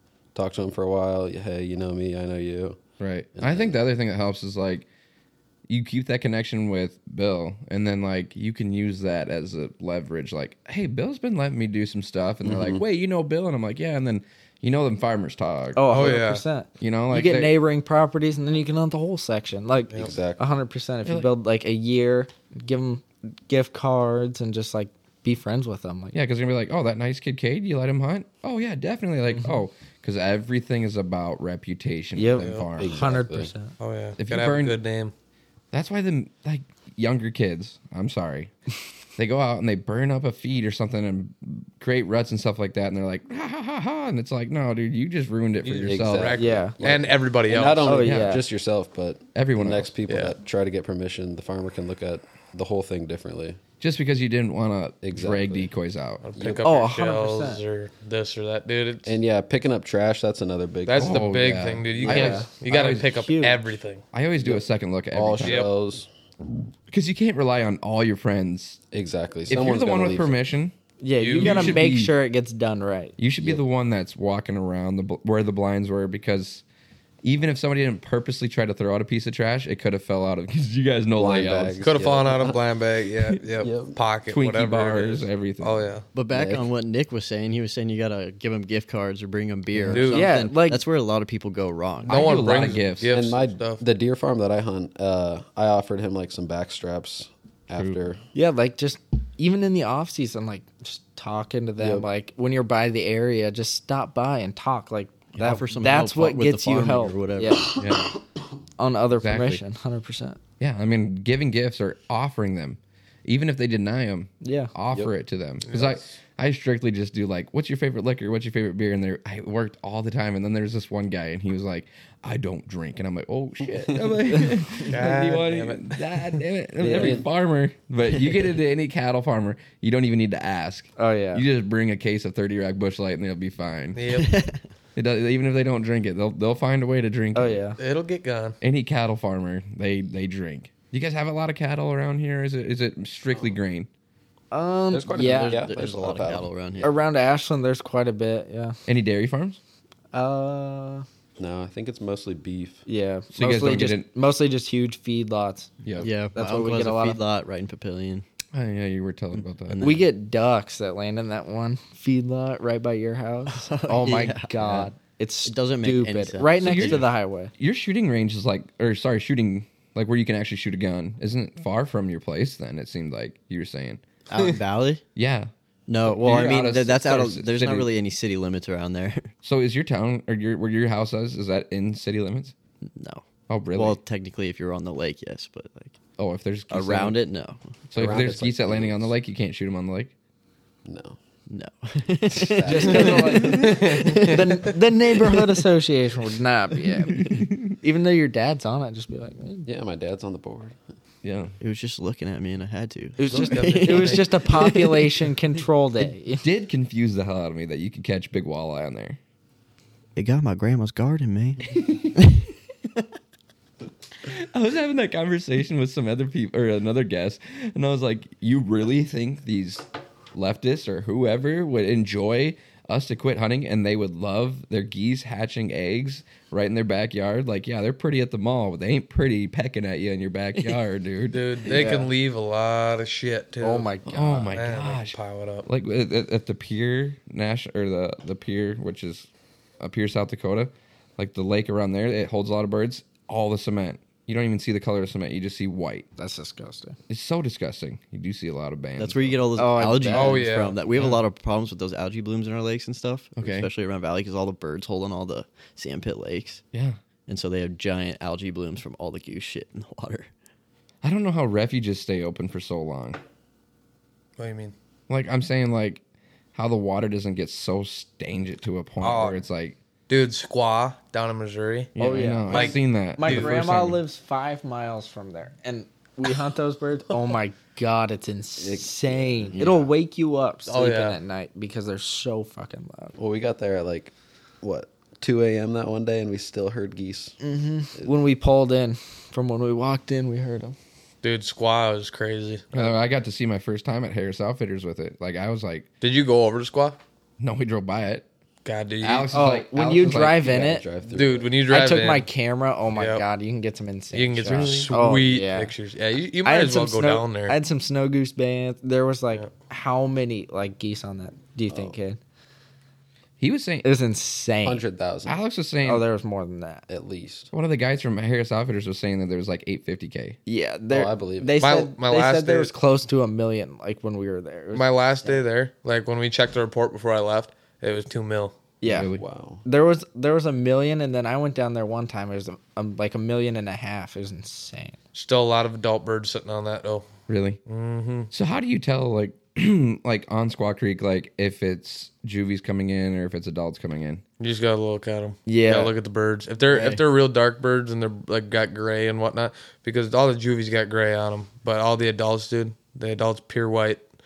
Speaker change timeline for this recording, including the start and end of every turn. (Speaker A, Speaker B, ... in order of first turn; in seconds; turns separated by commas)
Speaker A: 0.3-2.8, Speaker B: 3.0-4.8, Speaker A: 3.3-3.8, Speaker B: 5.7-16.2, Speaker A: 12.4-12.8, Speaker C: 15.8-26.1, Speaker D: 15.9-16.4, Speaker B: 16.8-17.5, Speaker A: 19.9-20.4, Speaker B: 21.0-21.3, Speaker B: 26.1-32.9, Speaker C: 32.1-33.7, Speaker D: 32.4-32.7, Speaker A: 32.8-33.5, Speaker D: 33.8-35.1, Speaker B: 34.2-34.8, Speaker B: 35.7-38.5, Speaker B: 39.2-46.4, Speaker D: 45.6-48.0, Speaker A: 45.8-53.6, Speaker C: 46.4-46.7, Speaker C: 47.8-48.5, Speaker B: 48.0-48.4, Speaker B: 49.3-49.9, Speaker D: 50.1-50.3, Speaker B: 53.8-56.2, Speaker A: 55.0-55.7, Speaker D: 56.2-59.1, Speaker A: 56.3-56.7, Speaker C: 56.6-57.6, Speaker A: 59.0-61.3, Speaker D: 60.9-64.0, Speaker B: 61.0-63.1, Speaker A: 61.9-62.5, Speaker C: 62.1-62.5, Speaker C: 63.0-63.7, Speaker B: 64.1-65.7, Speaker A: 64.4-66.1, Speaker D: 65.4-65.7, Speaker B: 66.9-68.8, Speaker A: 68.9-70.4, Speaker B: 69.5-70.7, Speaker C: 71.0-73.2, Speaker D: 71.2-71.8, Speaker B: 71.4-72.1, Speaker B: 73.2-76.6, Speaker B: 77.2-81.8, Speaker A: 81.2-82.6, Speaker D: 81.8-86.0, Speaker A: 83.6-84.0, Speaker B: 84.3-85.8, Speaker E: 86.1-92.4, Speaker A: 86.3-86.7, Speaker D: 89.9-90.3, Speaker C: 90.1-90.8, Speaker D: 92.0-93.8, Speaker B: 92.1-93.1, Speaker A: 93.1-98.2, Speaker C: 98.3-107.8, Speaker A: 101.8-102.1, Speaker E: 105.4-107.7, Speaker B: 107.8-108.1, Speaker C: 108.8-110.4, Speaker B: 109.2-109.6, Speaker B: 110.6-134.0, Speaker C: 114.4-114.7, Speaker D: 115.6-116.1, Speaker D: 124.8-126.4, Speaker A: 126.8-127.3, Speaker C: 131.0-131.4, Speaker D: 133.9-134.4, Speaker E: 134.2-134.6, Speaker B: 134.9-137.6, Speaker C: 137.3-137.8, Speaker D: 137.8-138.6, Speaker B: 138.6-143.9, Speaker C: 144.5-145.6, Speaker A: 144.9-146.5, Speaker E: 145.2-146.9, Speaker C: 146.8-148.8, Speaker B: 148.9-149.6, Speaker C: 150.1-151.0, Speaker A: 151.4-152.8, Speaker C: 152.9-155.7, Speaker B: 153.3-154.1, Speaker E: 156.0-158.2, Speaker C: 156.3-157.2, Speaker B: 158.5-160.0, Speaker E: 159.7-160.1, Speaker C: 159.8-167.5, Speaker E: 163.5-164.9, Speaker E: 165.4-167.1, Speaker B: 166.6-167.1, Speaker B: 167.6-174.0, Speaker E: 174.3-175.0, Speaker B: 175.2-175.5, Speaker E: 175.9-179.3, Speaker B: 176.0-177.9, Speaker B: 179.4-182.5, Speaker E: 182.9-185.9, Speaker B: 183.5-184.0, Speaker B: 186.2-187.2, Speaker E: 186.7-187.6, Speaker B: 187.9-190.1, Speaker A: 187.9-189.1, Speaker A: 190.8-191.2, Speaker E: 191.5-195.5, Speaker A: 192.3-193.4, Speaker C: 192.7-199.7, Speaker D: 193.4-194.4, Speaker B: 197.1-197.7, Speaker A: 199.7-200.8, Speaker B: 201.2-201.5, Speaker E: 201.6-205.1, Speaker C: 203.2-206.4, Speaker D: 203.3-204.5, Speaker B: 206.4-209.2, Speaker E: 210.2-212.5, Speaker B: 211.7-212.2, Speaker B: 214.2-231.5, Speaker D: 231.3-233.9, Speaker C: 231.7-232.1, Speaker C: 233.6-234.6, Speaker B: 234.1-239.3, Speaker D: 234.5-235.7, Speaker B: 239.8-246.1, Speaker C: 246.2-247.0, Speaker B: 247.1-249.4, Speaker E: 249.0-256.6, Speaker C: 249.6-250.4, Speaker D: 250.1-250.8, Speaker B: 250.9-251.2, Speaker B: 253.4-253.7, Speaker B: 256.7-257.0, Speaker E: 257.3-260.3, Speaker B: 261.0-263.2, Speaker D: 264.4-264.7, Speaker B: 265.1-266.0, Speaker B: 266.5-269.8, Speaker D: 269.0-269.4, Speaker D: 270.1-271.9, Speaker B: 271.9-274.0, Speaker C: 272.0-283.1, Speaker D: 272.5-273.7, Speaker A: 278.6-279.7, Speaker D: 280.7-281.2, Speaker A: 283.2-287.4, Speaker C: 287.4-290.8, Speaker D: 291.2-292.9, Speaker B: 292.7-295.9, Speaker D: 296.0-297.0, Speaker B: 297.4-298.2, Speaker D: 298.6-299.4, Speaker B: 299.0-300.6, Speaker C: 299.3-300.8, Speaker A: 300.1-301.5, Speaker D: 301.1-302.2, Speaker C: 301.7-305.7, Speaker D: 302.9-303.2, Speaker D: 304.1-307.6, Speaker B: 304.5-304.9, Speaker C: 306.4-312.2, Speaker A: 311.7-311.9, Speaker B: 313.4-313.9, Speaker C: 313.8-314.8, Speaker A: 314.6-315.4, Speaker B: 315.2-316.0, Speaker C: 315.8-316.9, Speaker A: 316.9-317.5, Speaker B: 317.5-320.4, Speaker C: 320.5-325.4, Speaker A: 320.9-321.6, Speaker D: 321.6-322.7, Speaker D: 324.7-328.6, Speaker C: 328.8-329.1, Speaker B: 328.9-329.2, Speaker A: 329.1-329.6, Speaker C: 329.6-334.9, Speaker D: 335.1-337.1, Speaker B: 337.3-337.6, Speaker D: 337.7-338.3, Speaker B: 338.3-344.2, Speaker D: 344.4-354.1, Speaker C: 345.5-345.9, Speaker E: 346.7-347.0